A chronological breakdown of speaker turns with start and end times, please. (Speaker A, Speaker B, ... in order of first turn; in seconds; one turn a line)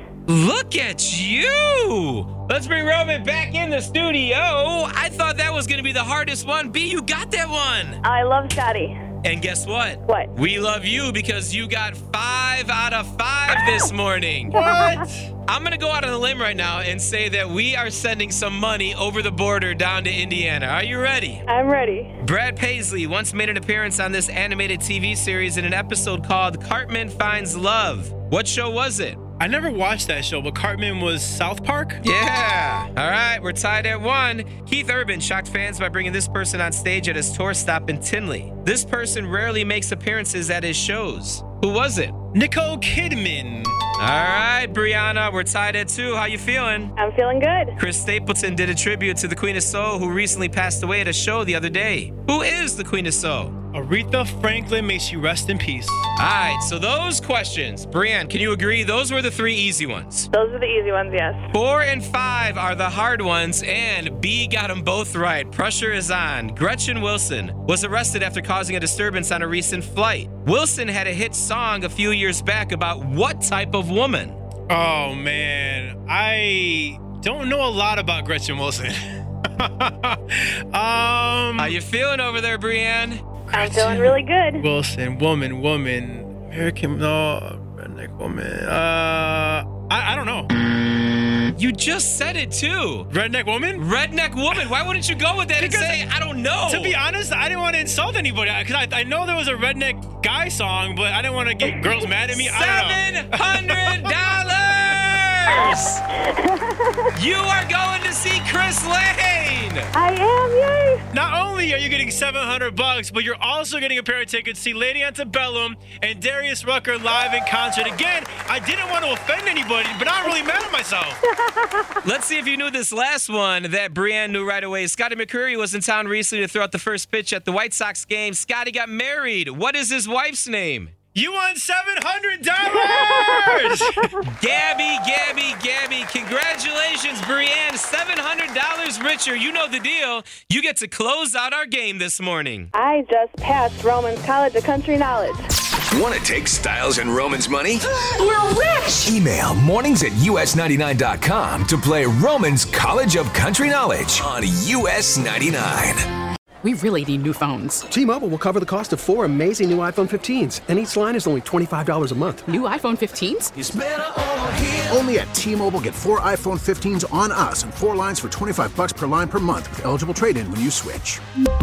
Speaker A: 0.3-8.0
Speaker B: 8.0-8.9
Speaker A: 9.2-14.6
Speaker C: 14.6-15.2
Speaker A: 15.5-21.4
Speaker B: 21.5-22.2
Speaker A: 22.2-29.2
Speaker C: 29.4-32.0
Speaker A: 32.0-42.2
Speaker C: 42.3-43.8
Speaker A: 44.0-46.9
Speaker B: 47.0-47.8
Speaker A: 47.8-53.5
Speaker C: 53.7-56.0
Speaker A: 56.2-60.3
Speaker B: 60.3-61.5
Speaker A: 61.5-74.4
Speaker C: 74.7-79.0
Speaker C: 79.6-81.7
Speaker A: 81.6-83.2
Speaker B: 83.5-84.6
Speaker C: 83.6-90.5
Speaker A: 91.6-93.1
Speaker C: 93.1-93.8
Speaker A: 93.8-97.0
Speaker C: 95.6-95.9
Speaker C: 96.7-104.1
Speaker A: 102.2-106.0
Speaker B: 105.5-107.1
Speaker A: 107.2-109.9
Speaker B: 110.0-111.0
Speaker C: 111.1-121.2
Speaker B: 121.3-121.8
Speaker A: 122.0-131.0
Speaker C: 131.1-134.1
Speaker B: 132.8-133.5
Speaker A: 134.3-142.7
Speaker B: 142.7-145.4
Speaker D: 145.9-147.9
Speaker E: 148.1-149.1
Speaker D: 149.0-156.1
Speaker E: 156.6-157.9
Speaker F: 157.9-162.4
Speaker E: 162.5-163.5
Speaker G: 164.9-171.2